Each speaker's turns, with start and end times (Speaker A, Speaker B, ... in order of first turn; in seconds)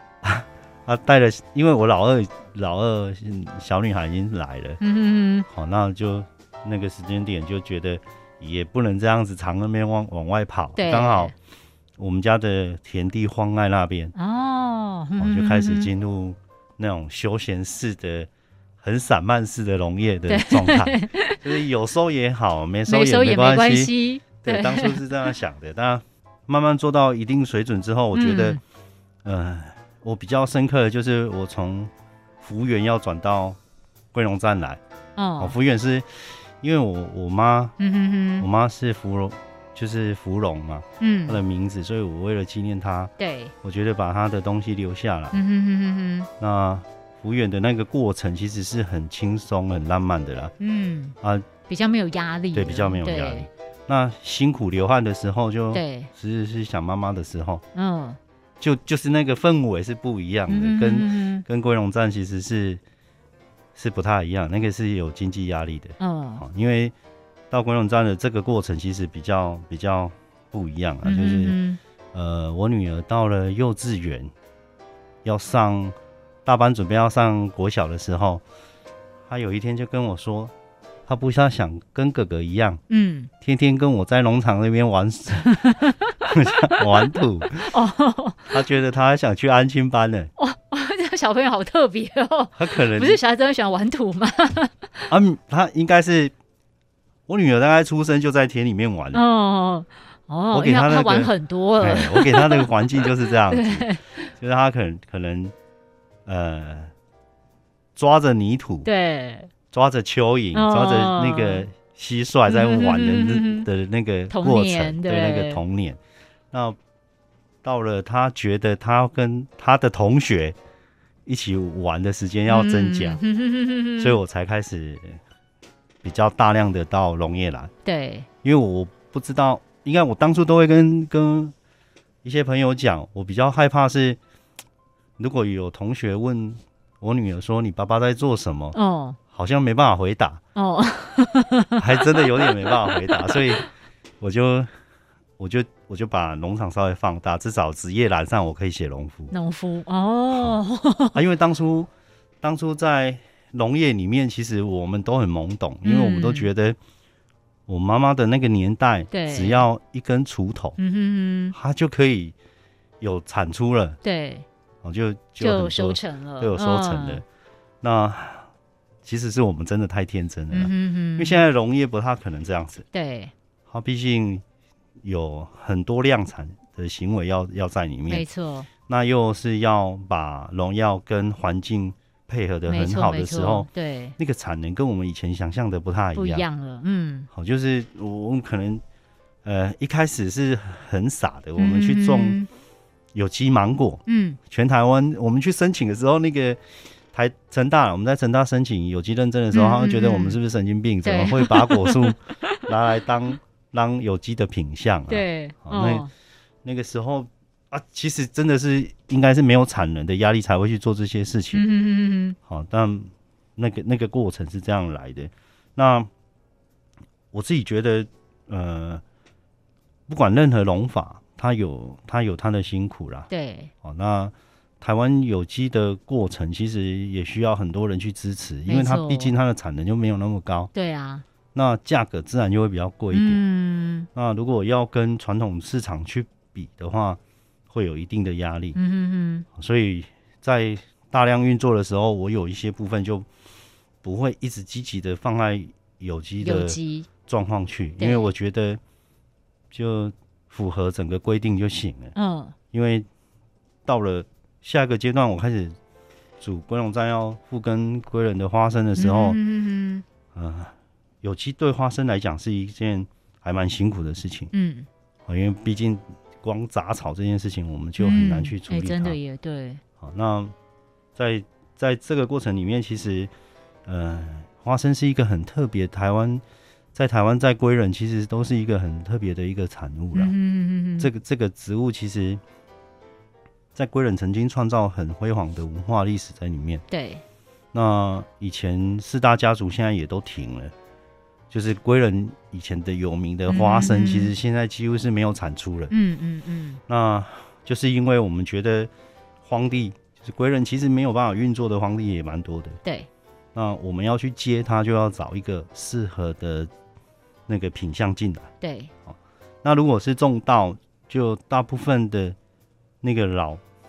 Speaker A: 0.2-4.8, 5.5-11.3, 12.0-14.1, 15.2-18.3, 18.8-28.6, 29.2-33.6, 34.1-34.8, 35.4-37.8, 38.4-45.4, 46.4-50.5, 51.2-51.5, 52.5-57.6, 58.6-62.8, 63.8-66.9, 67.5-71.6, 72.1-74.3, 75.2-78.4, 79.3-80.5, 81.1-82.8, 83.4-87.7, 88.5-90.3, 92.5-93.2, 95.1-96.3, 97.3-99.2, 100.5-105.5, 106.3-106.9, 108.0-108.9, 109.7-116.0, 116.5-116.8, 117.6-120.6, 121.3-123.2, 124.0-125.2, 126.0-127.7, 128.4-131.5, 132.2-134.2, 135.2-138.8, 139.3-140.4, 141.8-143.7, 144.2-144.7, 145.4-149.3, 150.3-150.6, 151.1-151.9, 152.4-156.8, 157.7-160.8, 161.5-162.3, 163.0-164.0, 164.8-167.2, 167.8-168.5, 169.0-172.9, 173.7-174.4, 175.0-178.2, 178.9-186.5, 187.3-188.8, 189.4-192.4, 193.1-196.6, 197.1-206.1, 206.6-211.6, 212.5-216.1, 217.3-219.0, 220.1-223.3, 223.8-230.7, 231.5-233.4, 234.1-237.2, 237.7-238.8, 239.5-243.3, 244.0-248.8, 249.7-252.1, 252.7-253.1, 253.9-255.8, 256.4-259.4, 260.3-264.5, 265.3-269.2, 270.0-270.5, 271.2-273.3, 273.9-276.4, 276.9-280.3, 281.0-282.4, 283.8-286.8, 287.7-290.7, 291.5-295.9, 296.9-298.9, 299.4-302.8, 303.6-306.7, 307.5-308.5, 309.1-312.4, 313.0-313.6
Speaker B: 4.8-5.5, 10.8-11.3, 14.2-15.9, 20.3-21.5, 22.9-25.3, 28.1-28.6, 35.2-35.6, 37.8-38.5, 41.0-41.4, 43.2-43.5, 45.3-46.3, 50.6-51.2, 51.7-53.5, 55.7-56.1, 57.8-58.2, 60.5-61.5, 66.0-66.4, 71.0-71.8, 82.9-83.3, 85.5-88.6, 90.4-95.1, 99.1-104.3, 108.8-109.5, 110.5-111.7, 112.5-113.7, 114.3-115.6, 122.5-124.2, 127.8-128.3, 138.7-139.2, 140.6-143.6, 149.3-151.2, 155.8-156.5, 159.1-159.7, 160.8-161.6, 164.0-164.5, 165.4-167.2, 170.5-171.4, 172.9-173.3, 178.1-178.7, 182.7-184.2, 186.2-187.3, 191.6-192.5, 194.1-194.4, 199.5-200.4, 201.0-202.7, 205.1-206.1, 211.5-212.4, 223.3-223.7, 228.7-229.3, 230.7-231.2, 233.1-234.1, 238.8-239.5, 246.4-247.1, 248.0-248.3, 252.2-252.6, 259.0-260.1, 264.5-264.9, 268.0-269.8, 280.1-281.1, 286.9-287.2, 293.5-294.3, 295.9-296.8, 302.8-303.1, 308.6-308.9